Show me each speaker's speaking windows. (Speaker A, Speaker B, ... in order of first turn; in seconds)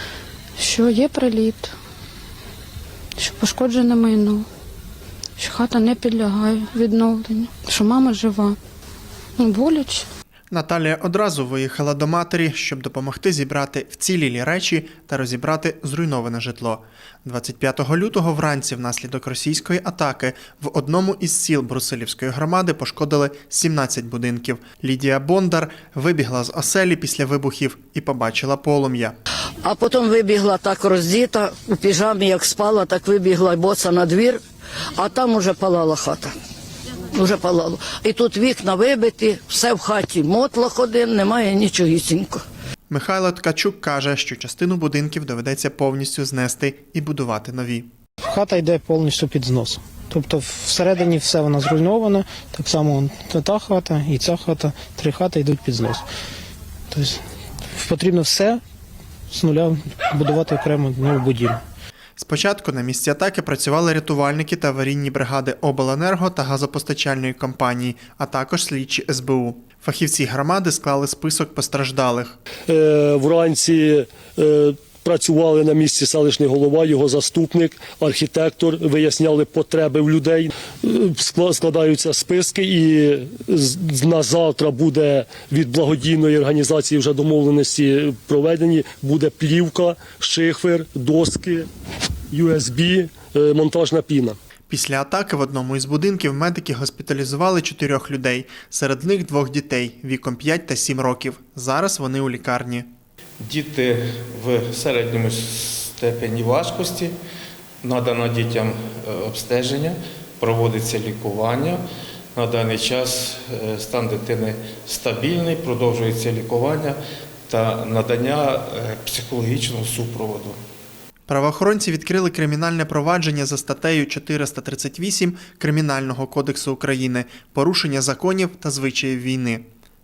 Speaker A: 0.6-1.7, 3.2-4.5, 5.4-8.6, 9.4-10.0
Speaker B: 10.5-29.1, 42.9-47.9, 62.2-72.4, 94.7-102.9, 121.3-129.7
Speaker C: 29.6-34.4, 34.9-36.4, 37.1-42.4
Speaker D: 48.2-56.0, 56.9-57.2, 57.7-58.6, 59.3-61.6
Speaker E: 72.7-91.7, 92.3-94.3
Speaker F: 103.4-107.1, 107.8-111.8, 112.3-117.0, 117.5-120.6